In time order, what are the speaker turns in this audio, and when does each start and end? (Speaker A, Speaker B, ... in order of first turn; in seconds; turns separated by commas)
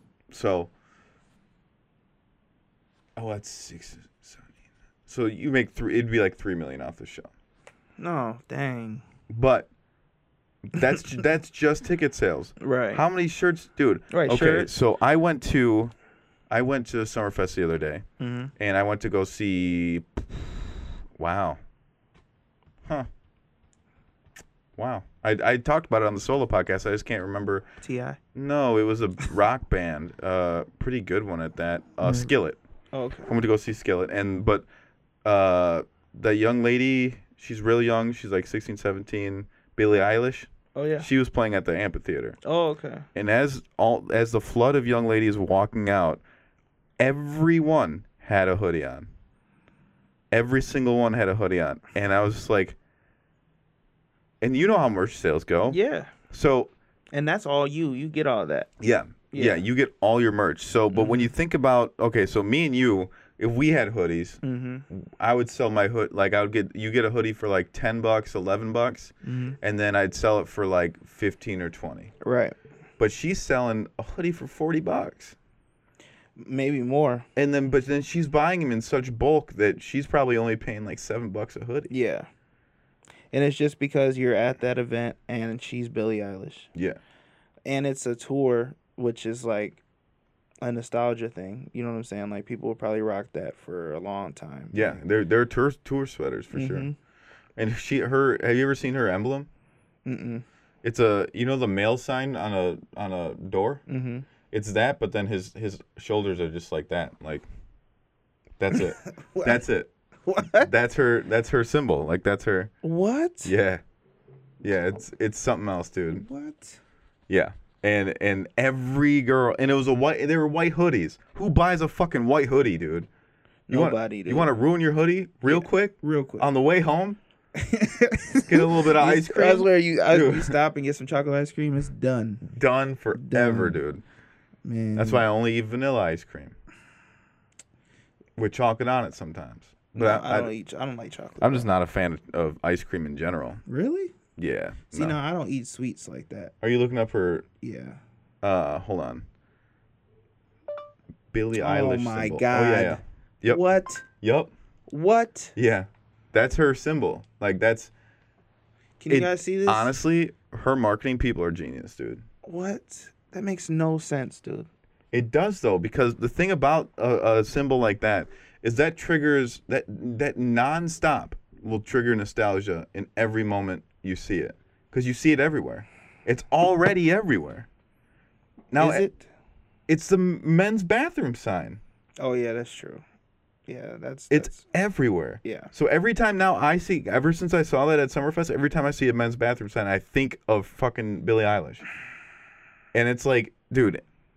Speaker A: 0.3-0.7, Speaker A: 3.1-4.5, Speaker A: 5.1-7.3, Speaker B: 8.0-9.0, Speaker A: 9.3-9.7, Speaker A: 10.6-15.9, Speaker B: 12.6-13.0, Speaker B: 14.1-14.7, Speaker A: 16.5-18.0, Speaker B: 18.2-18.5, Speaker A: 18.6-21.6, Speaker A: 24.8-27.6, Speaker B: 27.8-28.2, Speaker A: 28.3-32.6, Speaker B: 32.9-33.3, Speaker A: 33.3-34.6, Speaker A: 35.2-42.4, Speaker B: 40.7-41.1, Speaker B: 42.4-43.0, Speaker A: 43.1-46.2, Speaker A: 47.0-49.1, Speaker A: 50.3-52.8, Speaker A: 54.4-55.8, Speaker B: 55.6-56.1, Speaker A: 56.3-56.7, Speaker B: 57.1-58.7, Speaker A: 58.8-72.1, Speaker B: 59.3-59.6, Speaker B: 60.9-61.3, Speaker B: 64.4-64.8, Speaker B: 69.2-69.6, Speaker B: 72.2-72.6, Speaker A: 73.0-75.3, Speaker B: 76.4-77.3, Speaker A: 77.3-81.9, Speaker B: 81.9-82.3, Speaker B: 83.3-86.7, Speaker A: 86.7-87.0, Speaker B: 87.7-89.8, Speaker B: 90.6-94.9, Speaker A: 94.7-96.9, Speaker B: 96.5-96.9, Speaker A: 97.5-99.5, Speaker B: 100.0-100.4, Speaker A: 100.8-103.8, Speaker B: 103.9-104.2, Speaker A: 104.5-107.5, Speaker A: 108.6-109.9, Speaker B: 109.0-109.6, Speaker B: 110.2-110.7, Speaker A: 110.5-112.7, Speaker B: 112.8-113.5, Speaker A: 113.4-113.8, Speaker A: 114.6-116.2, Speaker B: 116.1-116.8, Speaker A: 117.3-123.1, Speaker B: 123.7-124.5, Speaker A: 123.7-127.2, Speaker B: 125.5-126.5, Speaker B: 127.5-132.4, Speaker A: 128.4-130.5, Speaker A: 132.4-134.0, Speaker B: 133.1-133.8, Speaker B: 134.6-135.2, Speaker A: 134.9-136.5, Speaker A: 138.4-140.5, Speaker B: 139.9-141.7, Speaker A: 141.4-143.6, Speaker B: 143.7-144.1, Speaker A: 144.4-145.2, Speaker B: 144.9-146.5, Speaker A: 146.6-147.4, Speaker B: 147.6-148.0, Speaker A: 148.4-149.2, Speaker A: 151.3-153.6, Speaker B: 151.6-154.0, Speaker A: 154.2-154.5, Speaker B: 154.9-155.5, Speaker A: 155.6-157.9, Speaker B: 159.0-159.9, Speaker A: 159.1-162.2, Speaker B: 162.4-164.7, Speaker A: 165.1-177.7, Speaker A: 178.7-179.1, Speaker B: 178.8-179.2, Speaker A: 179.9-181.8, Speaker B: 182.2-183.0, Speaker B: 183.7-184.6, Speaker A: 184.3-191.8, Speaker B: 185.4-185.7, Speaker A: 192.9-194.0